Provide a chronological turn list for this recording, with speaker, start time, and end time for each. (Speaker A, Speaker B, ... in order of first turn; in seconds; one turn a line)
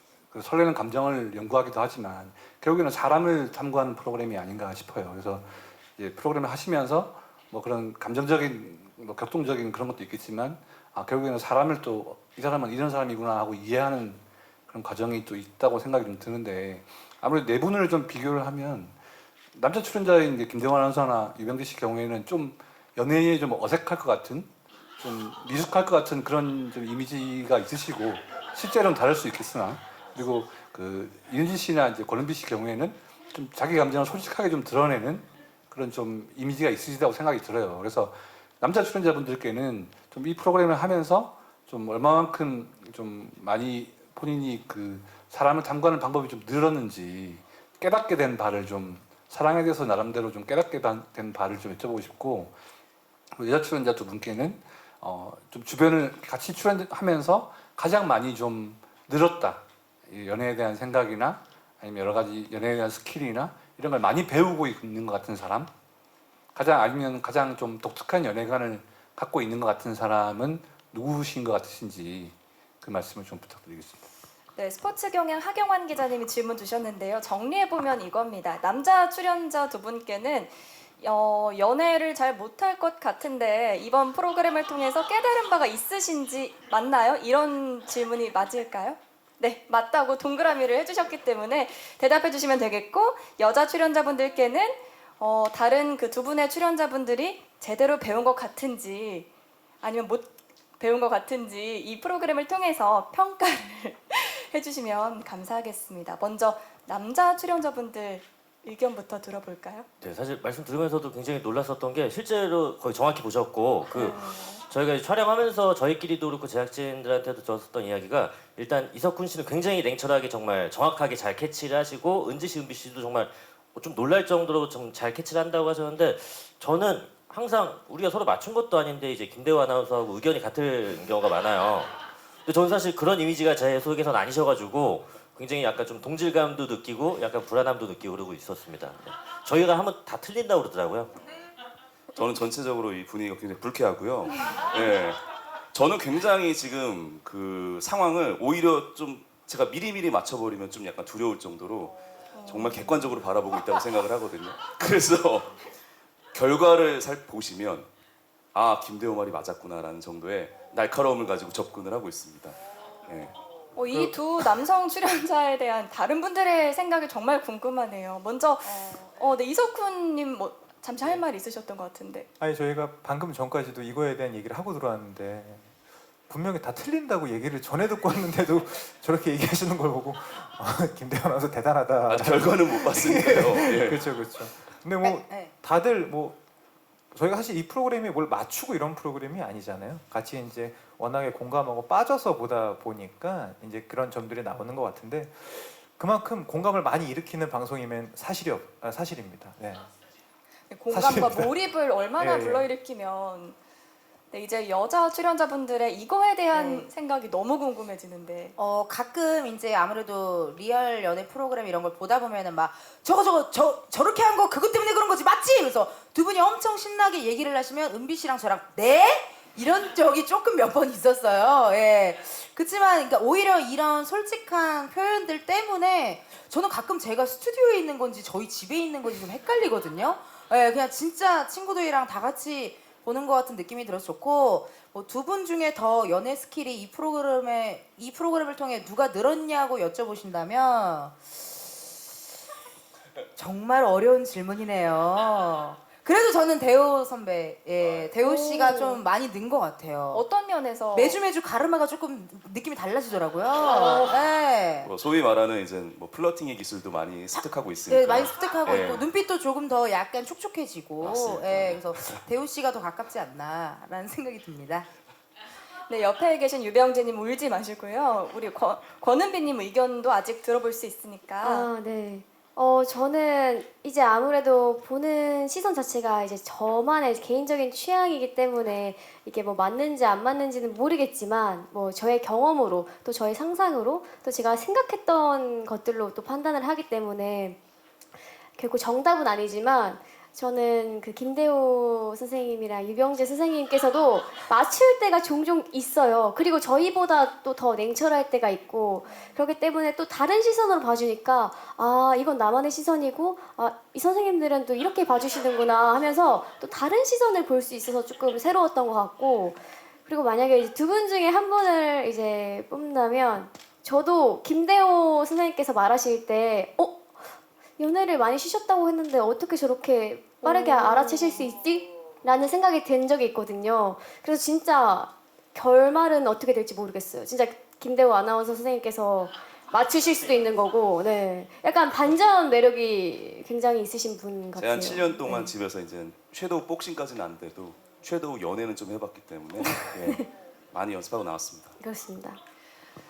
Speaker A: 0.3-18.9
Speaker A: 19.5-52.5
Speaker A: 53.4-65.7
Speaker A: 66.5-74.1
Speaker B: 74.5-99.3
Speaker B: 99.8-109.9
Speaker C: 110.0-131.9
Speaker B: 113.8-114.6
Speaker C: 132.4-141.1
Speaker D: 142.1-145.2
Speaker D: 145.7-151.9
Speaker B: 152.3-153.2
Speaker D: 152.4-155.5
Speaker D: 156.3-157.9
Speaker D: 158.5-163.3
Speaker B: 163.7-172.3
Speaker E: 172.4-175.7
Speaker E: 176.3-186.4
Speaker D: 182.1-184.1
Speaker F: 185.0-185.5
Speaker E: 187.1-199.9
Speaker B: 200.7-203.6
Speaker E: 200.9-201.5
Speaker E: 202.2-202.7
Speaker B: 204.3-208.6
Speaker F: 206.5-206.9
Speaker F: 208.6-241.3
Speaker F: 243.3-250.2
Speaker B: 248.2-249.0
Speaker B: 250.1-251.2
Speaker F: 250.9-254.9
Speaker D: 254.8-259.1
Speaker F: 257.3-264.9
Speaker D: 261.0-262.2
Speaker B: 265.9-271.7
Speaker G: 271.4-287.6
Speaker G: 288.6-317.1
Speaker G: 317.8-335.5
Speaker B: 320.4-321.4
Speaker D: 334.6-341.7
Speaker G: 339.7-340.2
Speaker G: 341.8-342.4